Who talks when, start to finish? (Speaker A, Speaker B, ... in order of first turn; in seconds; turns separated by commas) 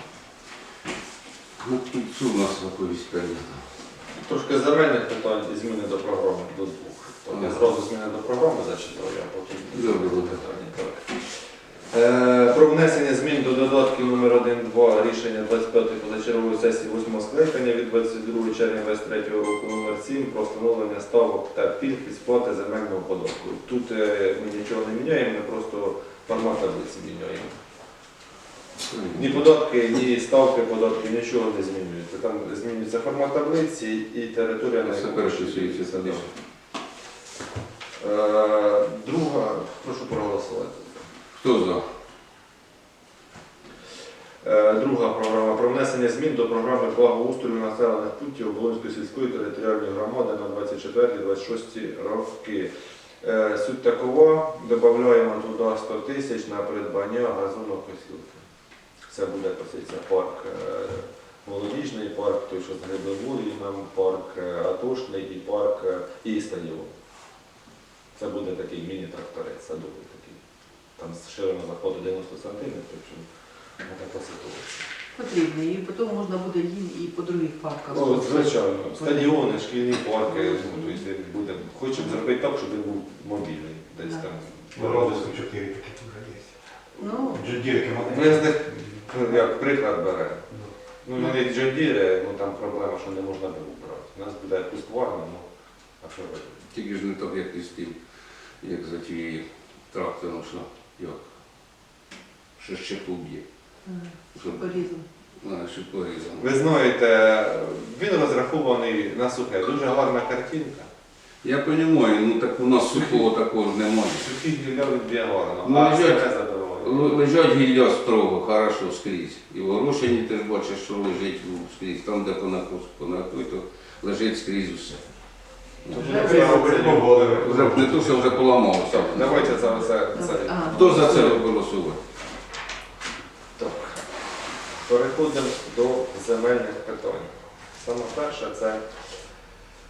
Speaker A: 1.6-3.8, Speaker B: 4.1-27.5, Speaker A: 7.3-7.6, Speaker A: 9.7-10.4, Speaker A: 28.9-29.5, Speaker B: 29.1-36.3, Speaker A: 34.8-36.3, Speaker B: 38.0-41.0, Speaker A: 41.3-41.8, Speaker B: 44.4-58.4, Speaker B: 59.1-66.9, Speaker B: 68.2-70.4, Speaker B: 71.0-73.3, Speaker B: 73.8-74.8, Speaker C: 75.1-79.4, Speaker B: 77.9-85.5, Speaker C: 80.3-81.0, Speaker D: 84.8-86.5, Speaker C: 87.0-87.5, Speaker D: 87.3-89.1, Speaker B: 88.0-90.5, Speaker B: 91.0-95.5, Speaker B: 96.0-96.6, Speaker A: 96.7-98.0, Speaker A: 98.6-101.3, Speaker A: 102.6-103.4, Speaker C: 103.8-105.0, Speaker A: 104.3-104.6, Speaker A: 105.4-106.5, Speaker B: 106.4-110.9, Speaker A: 111.4-114.3, Speaker B: 112.9-113.3, Speaker B: 114.1-117.1, Speaker A: 115.6-116.3, Speaker A: 116.8-125.0, Speaker A: 125.8-126.3, Speaker B: 125.9-127.9, Speaker D: 126.0-128.4, Speaker C: 126.0-126.5, Speaker A: 127.4-129.6, Speaker B: 128.8-131.5, Speaker C: 130.1-131.0, Speaker A: 130.7-132.0, Speaker B: 133.6-134.0, Speaker B: 134.8-138.9